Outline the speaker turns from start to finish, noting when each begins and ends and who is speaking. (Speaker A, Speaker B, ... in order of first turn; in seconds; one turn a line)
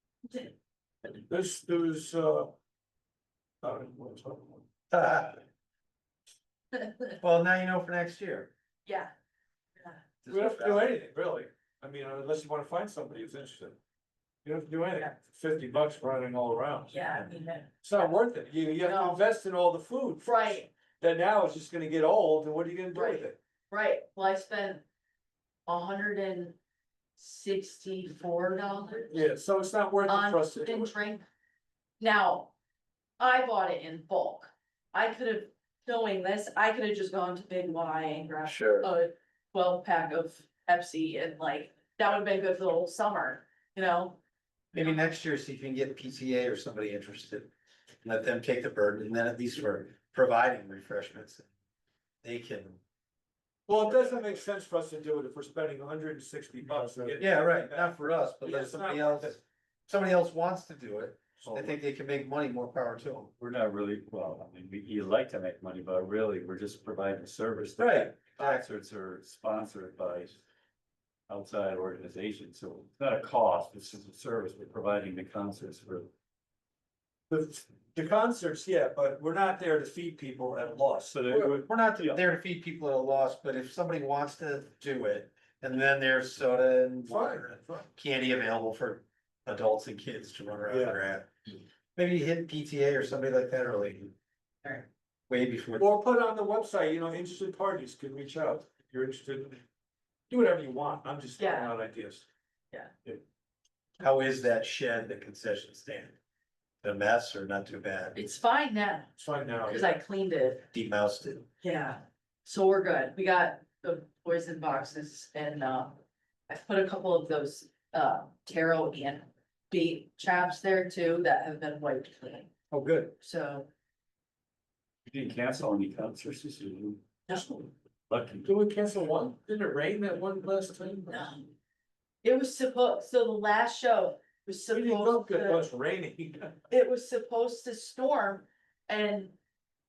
Speaker A: 1.1-2.5
Speaker A: 3.6-4.6
Speaker B: 4.9-5.4
Speaker C: 6.7-7.1
Speaker B: 7.2-8.5
Speaker C: 8.8-9.1
Speaker C: 9.8-10.0
Speaker B: 10.2-10.9
Speaker A: 10.3-13.8
Speaker A: 14.4-17.2
Speaker C: 16.9-18.1
Speaker A: 17.8-23.4
Speaker C: 18.8-19.2
Speaker C: 20.2-20.7
Speaker C: 22.9-24.8
Speaker C: 25.6-26.6
Speaker C: 27.2-29.2
Speaker A: 29.1-30.9
Speaker C: 30.0-31.2
Speaker C: 32.0-32.5
Speaker C: 33.2-44.2
Speaker B: 38.4-38.9
Speaker B: 44.7-47.5
Speaker B: 48.0-51.5
Speaker B: 52.2-52.8
Speaker A: 53.7-59.4
Speaker B: 53.9-54.3
Speaker B: 57.2-63.3
Speaker A: 61.4-61.8
Speaker D: 63.4-70.4
Speaker B: 67.8-68.7
Speaker D: 71.3-76.1
Speaker A: 77.3-81.6
Speaker D: 81.1-82.2
Speaker B: 81.3-91.4
Speaker A: 87.1-87.8
Speaker A: 90.7-91.0
Speaker B: 91.9-94.1
Speaker B: 95.3-95.9
Speaker A: 95.7-99.6
Speaker A: 100.3-102.2
Speaker C: 101.4-101.7
Speaker B: 104.0-106.2
Speaker B: 106.8-108.2
Speaker C: 108.1-110.6
Speaker A: 109.2-110.0
Speaker B: 110.7-111.5
Speaker C: 111.6-122.5
Speaker B: 122.7-123.1
Speaker C: 123.2-123.7
Speaker D: 125.1-127.0
Speaker C: 127.3-127.7
Speaker D: 128.1-128.5
Speaker A: 128.4-131.2
Speaker C: 131.1-131.5
Speaker C: 132.2-135.7
Speaker A: 134.7-136.6
Speaker C: 136.7-139.3